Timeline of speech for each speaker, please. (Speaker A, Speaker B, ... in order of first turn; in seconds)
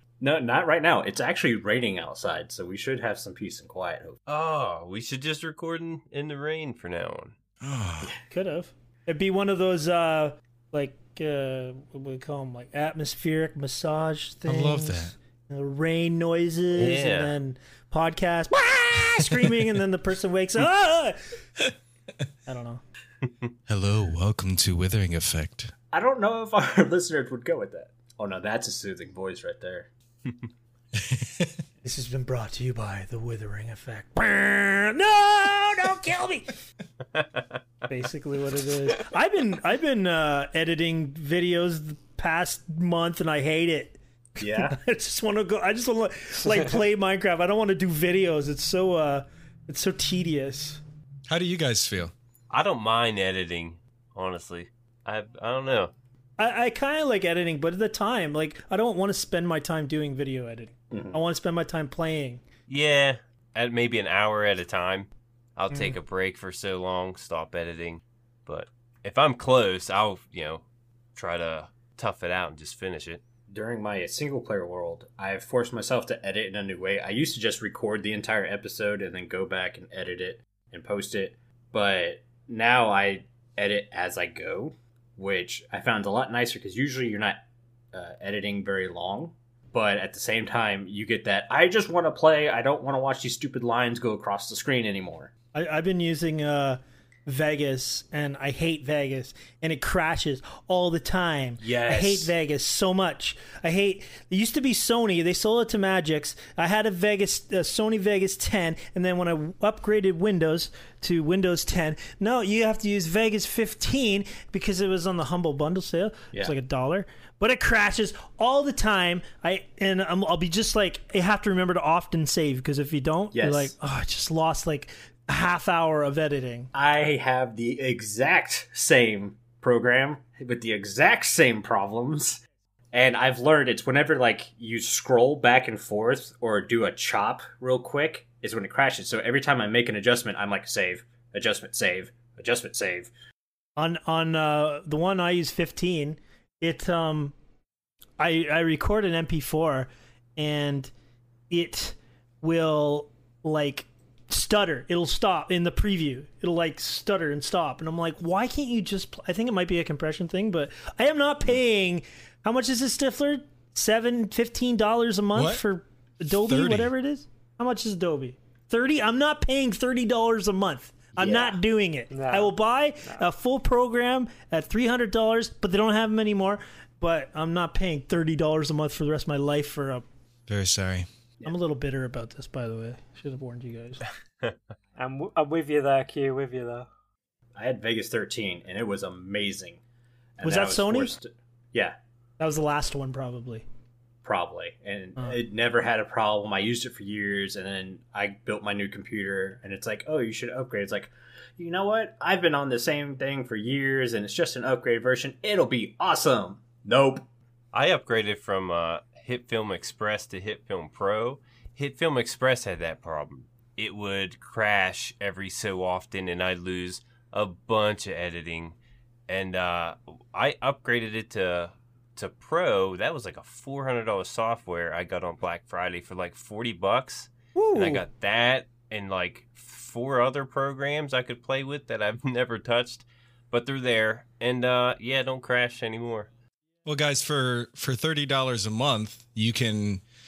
Speaker A: 0.2-4.2, 25.9-29.9, 44.4-44.8, 60.9-61.2, 73.5-87.4, 87.9-95.3, 101.6-102.3, 123.3-123.7, 126.7-132.4, 132.9-143.1, 171.2-171.6, 187.6-189.8, 190.4-191.9, 194.2-207.3
Speaker B: 4.3-7.3, 16.8-17.3, 37.2-37.4, 52.5-55.9, 62.7-70.6, 71.2-73.2, 207.7-218.8, 219.3-236.3
Speaker C: 7.6-8.2, 14.5-15.1, 19.2-19.5, 23.7-25.7, 30.9-31.6, 51.3-52.1, 165.3-165.6, 166.3-166.9, 180.5-181.1, 236.8-240.0
Speaker D: 8.3-21.2, 22.5-22.8, 31.8-36.5, 37.9-50.8, 56.4-62.4, 95.5-126.7, 143.8-147.3, 148.2-150.9, 151.5-180.1, 181.4-184.1, 190.4-191.2, 192.4-193.7, 227.6-228.0
Speaker E: 172.1-173.2, 185.0-186.9